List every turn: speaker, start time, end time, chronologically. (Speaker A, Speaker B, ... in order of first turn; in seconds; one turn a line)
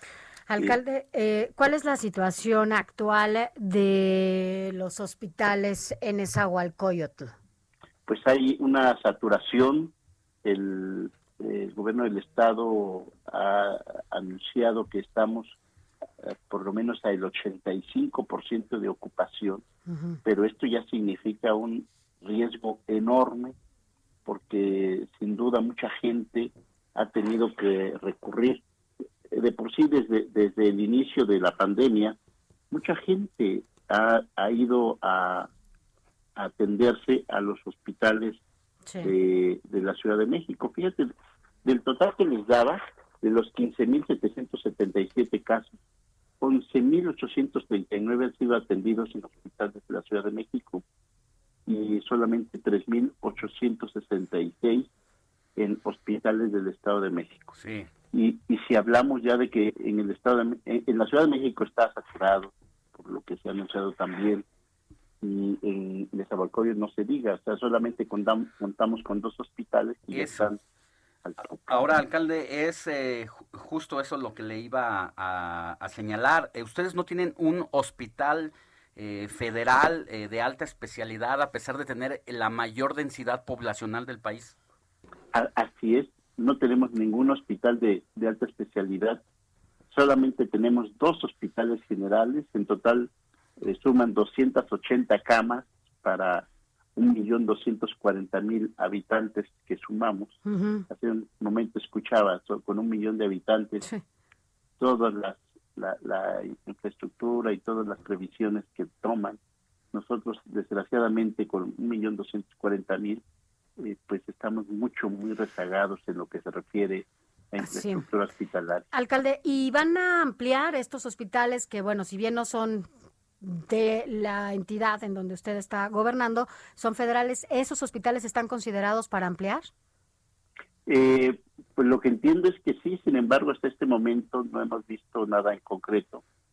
Speaker A: 0.5-7.3
Speaker B: 8.1-9.9
Speaker B: 10.4-15.6
Speaker B: 16.2-19.6
Speaker A: 19.9-20.2
Speaker B: 20.2-23.5
Speaker B: 24.2-28.6
Speaker B: 29.3-32.2
Speaker B: 32.7-35.5
Speaker B: 36.4-38.4
Speaker B: 39.0-41.1
Speaker B: 41.6-45.7
Speaker B: 46.4-50.8
Speaker B: 51.7-54.9
Speaker B: 55.6-57.5
Speaker C: 57.5-57.9
Speaker B: 58.1-64.4
Speaker B: 65.2-70.6
Speaker C: 70.1-70.5
Speaker B: 71.2-72.0
Speaker C: 71.7-84.6
Speaker B: 85.3-89.2
Speaker B: 89.9-100.3
Speaker A: 100.5-100.8
Speaker B: 100.9-103.8
Speaker B: 104.8-109.4
Speaker B: 109.9-113.2
Speaker B: 113.8-118.8
Speaker A: 117.6-118.0
Speaker A: 118.9-122.9
Speaker A: 123.4-129.7
Speaker B: 130.9-136.2